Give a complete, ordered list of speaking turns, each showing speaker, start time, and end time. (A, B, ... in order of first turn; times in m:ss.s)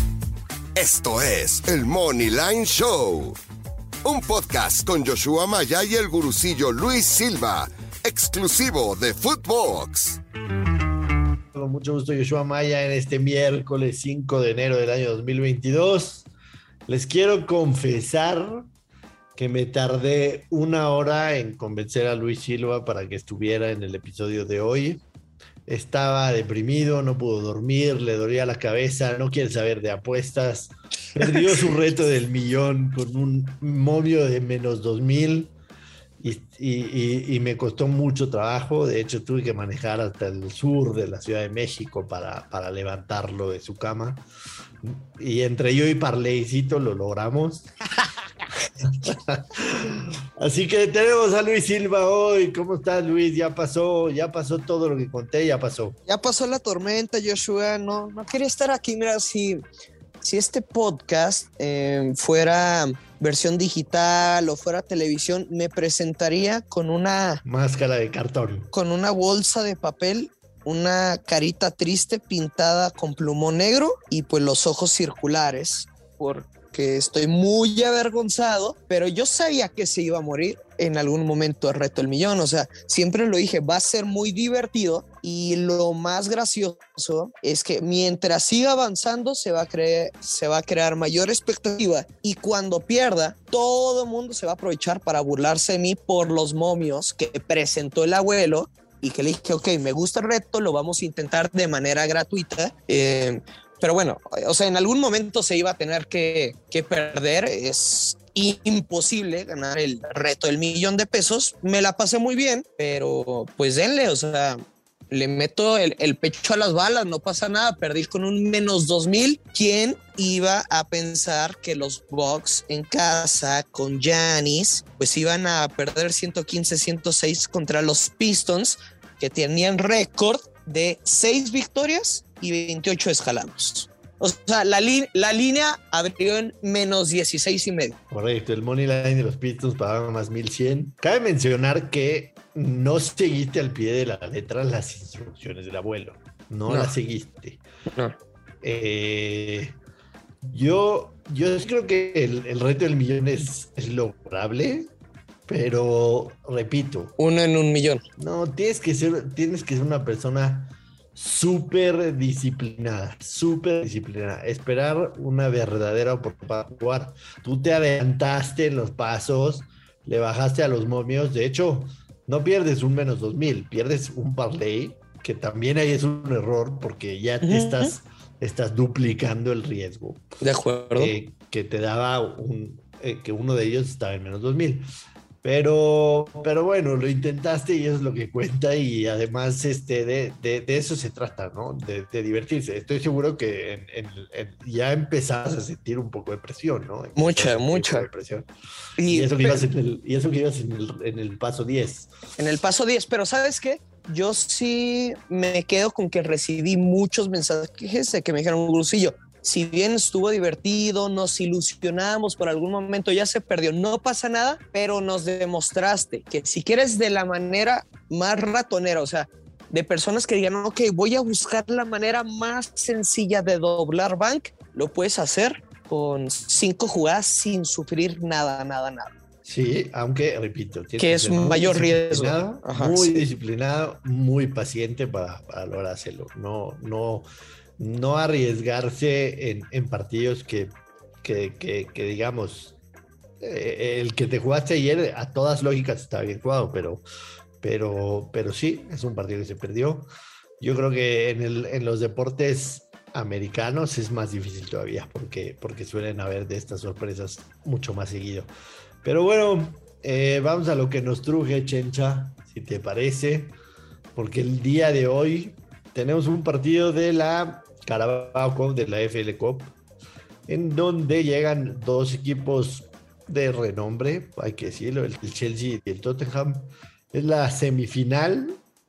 0:00.7-0:03.4 A
0:04.0-0:10.2 A
0:11.5-0:16.3 B
0:16.9-0:18.7 B
0:19.4-0:25.0 B
0:25.6-0:35.5 B
0:36.2-0:44.2 B
0:44.8-0:47.7 B
0:48.8-0:56.0 B
0:56.1-0:59.6 C
1:00.2-1:07.4 C
1:07.4-1:08.7 B
1:08.7-1:54.6 C
1:55.1-2:18.0 C
2:18.1-2:27.6 B
2:26.7-2:26.9 C
2:28.6-2:29.8 B
2:30.5-2:34.9 B
2:35.5-2:37.2 B
2:37.2-2:38.0 C
2:38.2-3:00.4 B
2:57.4-2:57.9 C
3:00.4-3:01.1 C
3:00.9-3:04.8 B
3:05.4-3:18.5 B
3:17.2-3:18.1 C
3:19.0-3:19.6 C
3:19.1-3:22.1 B
3:22.4-3:49.1 C
3:49.4-3:57.2 B
3:51.0-3:53.2 C
3:57.8-4:02.8 B
4:03.4-4:07.0 B
4:07.6-4:10.1 B
4:10.6-4:18.5 B
4:19.0-4:23.5 B
4:24.1-4:29.7 B
4:30.5-4:38.6 B